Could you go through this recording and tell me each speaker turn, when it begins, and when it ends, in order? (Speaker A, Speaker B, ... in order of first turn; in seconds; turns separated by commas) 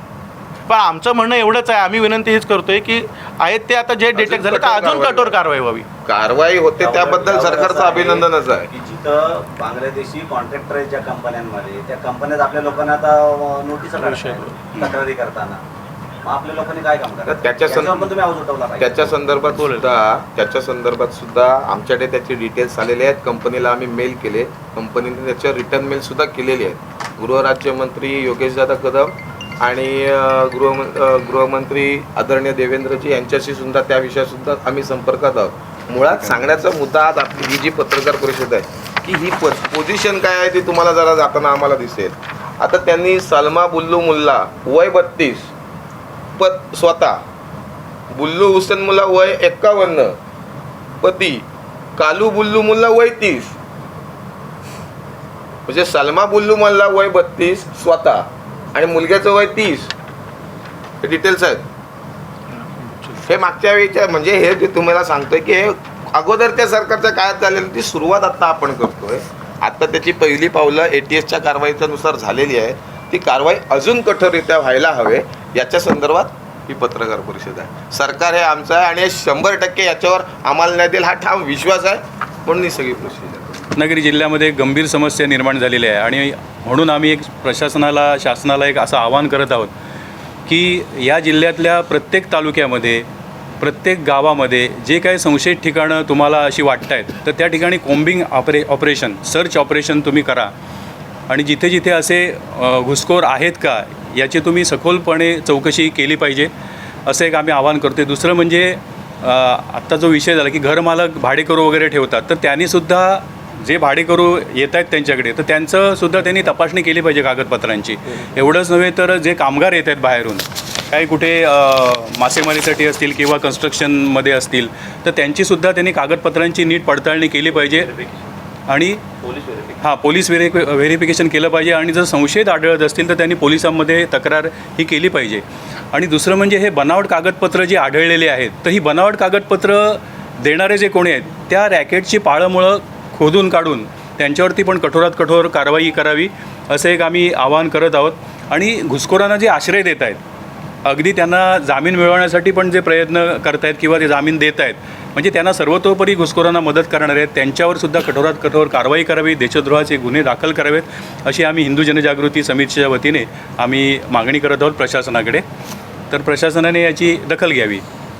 Speaker A: 0.7-5.9, Speaker B: 4.1-5.4, Speaker B: 6.0-8.7, Speaker C: 6.8-15.6, Speaker A: 14.0-14.6, Speaker C: 16.2-19.1, Speaker B: 17.3-18.1, Speaker B: 18.8-45.5, Speaker A: 19.6-19.9, Speaker D: 36.1-36.5, Speaker B: 46.4-47.2, Speaker B: 48.1-50.2, Speaker B: 51.0-51.5, Speaker B: 52.0-53.5, Speaker B: 55.7-59.9, Speaker B: 61.0-61.7, Speaker A: 62.5-63.2, Speaker B: 63.2-83.6, Speaker D: 83.7-89.7, Speaker D: 90.5-93.1, Speaker D: 93.6-100.5, Speaker D: 101.3-106.5, Speaker D: 107.1-127.9, Speaker D: 128.7-129.1, Speaker C: 129.2-129.8, Speaker D: 129.8-150.2, Speaker D: 150.8-165.4, Speaker D: 166.1-167.8